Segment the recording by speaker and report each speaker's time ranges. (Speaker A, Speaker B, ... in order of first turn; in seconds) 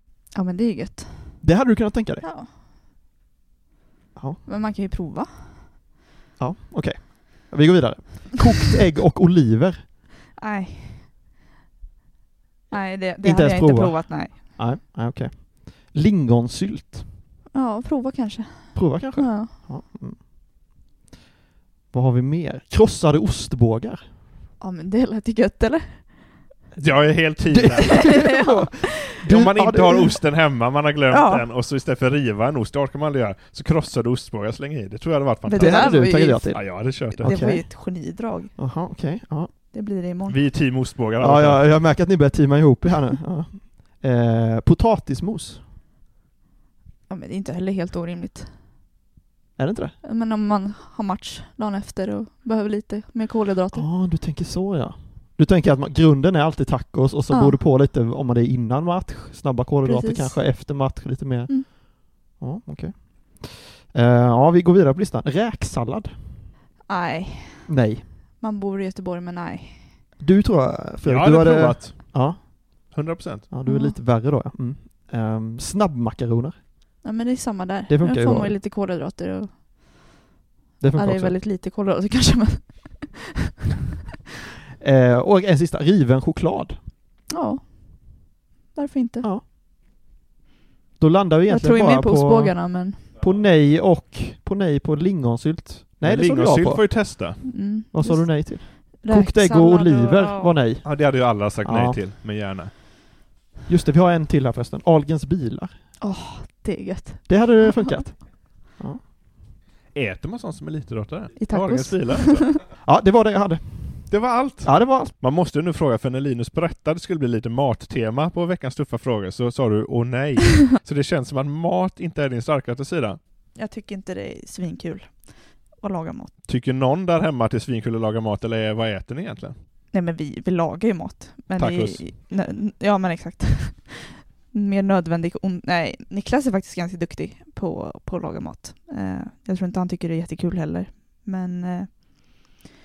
Speaker A: 0.3-1.4, 2.2-2.5, 4.5-5.7, 10.4-11.1, 12.7-14.4, 17.5-19.6, 24.6-26.4, 27.8-29.0, 31.1-31.4, 35.5-38.5, 39.7-40.4, 47.1-48.5, 50.0-53.9, 57.3-57.6, 59.9-61.0, 66.9-67.8, 68.4-70.0, 73.7-74.0, 77.0-80.1, 81.0-83.2, 87.3-89.3, 91.5-93.1, 97.4-100.5, 106.0-108.0, 111.4-112.6, 123.5-126.3, 129.9-142.5
Speaker B: 1.4-2.3, 4.2-4.5, 6.4-9.9, 13.2-17.2, 18.7-20.2, 21.9-24.2, 26.8-30.1, 35.5-39.5, 41.2-45.7, 49.6-50.0, 53.7-66.5, 67.7-68.1, 70.2-72.9, 73.5-76.6, 77.9-78.6, 80.8-81.4, 84.8-86.8, 91.0-102.0, 103.7-105.8, 107.3-109.0, 112.8-115.1
Speaker C: 26.8-28.3, 29.3-37.3, 40.3-41.9, 71.0-73.5, 96.0-97.4, 100.8-102.7, 109.9-112.6, 114.1-123.2, 126.5-129.6, 131.6-132.1